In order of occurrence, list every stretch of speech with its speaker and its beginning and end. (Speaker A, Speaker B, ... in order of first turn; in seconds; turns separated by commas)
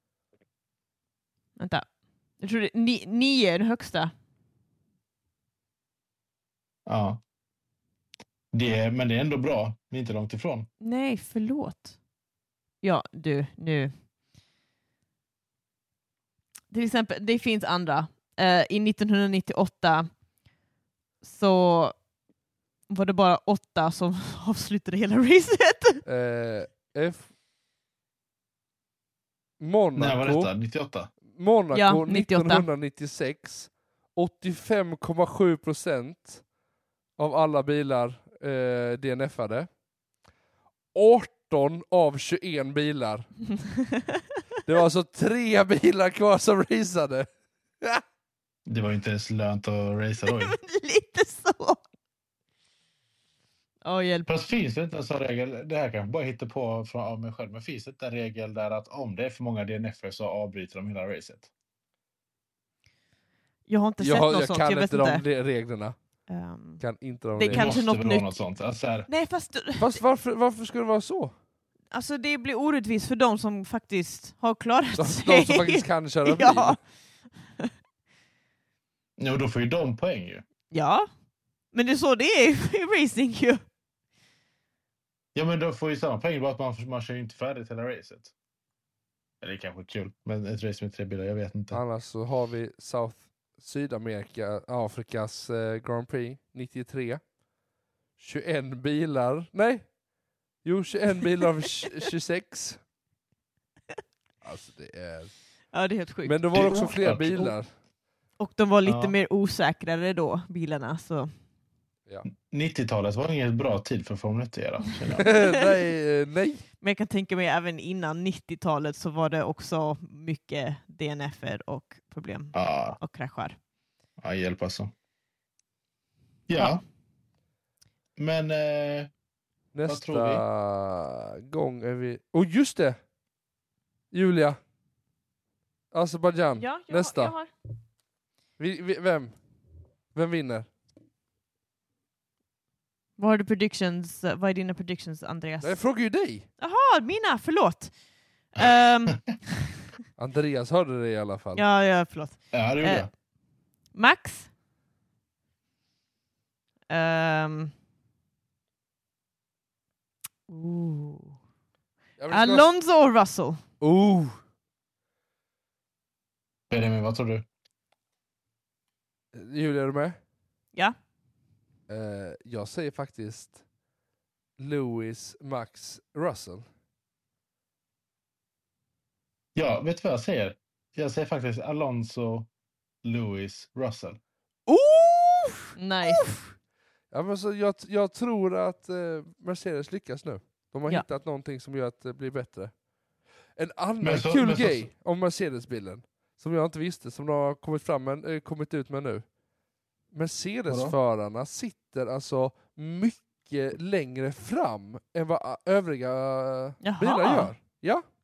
Speaker A: 1.6-4.1, Speaker B: 6.9-7.2, Speaker B: 8.5-10.7, Speaker A: 10.8-12.0, Speaker A: 12.8-13.9, Speaker A: 16.7-20.1, Speaker A: 21.2-22.0, Speaker A: 22.9-26.0, Speaker C: 26.1-27.3, Speaker C: 29.6-30.5, Speaker B: 29.9-31.1, Speaker C: 31.3-36.4, Speaker A: 31.7-32.7, Speaker C: 37.2-39.7, Speaker C: 40.9-43.4, Speaker A: 43.9-44.2, Speaker C: 44.7-47.3, Speaker B: 48.7-50.6, Speaker A: 50.2-51.8, Speaker A: 53.8-54.3, Speaker B: 54.3-61.5, Speaker A: 63.7-65.2, Speaker C: 64.0-66.0, Speaker A: 66.3-66.8, Speaker C: 66.8-67.7, Speaker A: 67.4-68.4, Speaker B: 67.5-69.1, Speaker A: 69.1-70.0, Speaker C: 69.8-71.3, Speaker A: 71.9-76.8, Speaker C: 75.0-76.8, Speaker B: 79.2-80.5, Speaker A: 80.7-81.1, Speaker A: 81.7-83.6, Speaker B: 85.3-88.3, Speaker B: 89.4-91.8, Speaker C: 91.7-97.2, Speaker C: 98.2-99.9, Speaker C: 100.6-102.8, Speaker C: 104.4-105.3, Speaker A: 105.7-106.4, Speaker C: 106.2-107.7, Speaker B: 106.5-107.5, Speaker A: 108.4-111.3, Speaker B: 108.8-109.2, Speaker B: 112.3-115.3, Speaker C: 115.2-116.6, Speaker A: 115.2-115.6, Speaker A: 116.8-123.6, Speaker B: 122.5-123.0, Speaker B: 124.2-124.9, Speaker B: 126.5-126.8, Speaker B: 128.2-129.1, Speaker C: 129.7-133.0, Speaker B: 129.9-130.4, Speaker C: 134.1-134.6, Speaker C: 135.9-137.3, Speaker A: 136.6-137.5, Speaker C: 138.6-139.3, Speaker C: 140.1-140.7, Speaker A: 143.2-145.8, Speaker C: 145.6-146.5, Speaker A: 146.6-147.9, Speaker A: 148.5-149.5, Speaker C: 150.2-151.7, Speaker A: 151.6-153.1, Speaker B: 152.5-153.1, Speaker A: 153.9-154.5, Speaker A: 156.9-157.7, Speaker A: 160.5-161.4, Speaker C: 162.2-162.7, Speaker A: 162.3-163.6, Speaker C: 163.8-164.4, Speaker B: 166.7-167.5, Speaker C: 169.3-170.2, Speaker C: 171.9-173.6, Speaker C: 174.6-176.7, Speaker B: 179.6-182.5, Speaker B: 183.0-184.2, Speaker C: 184.7-186.4, Speaker A: 185.8-186.4, Speaker C: 187.1-192.7, Speaker C: 193.6-199.2, Speaker B: 194.0-194.9, Speaker C: 200.1-208.0, Speaker B: 200.7-201.0, Speaker A: 206.8-207.5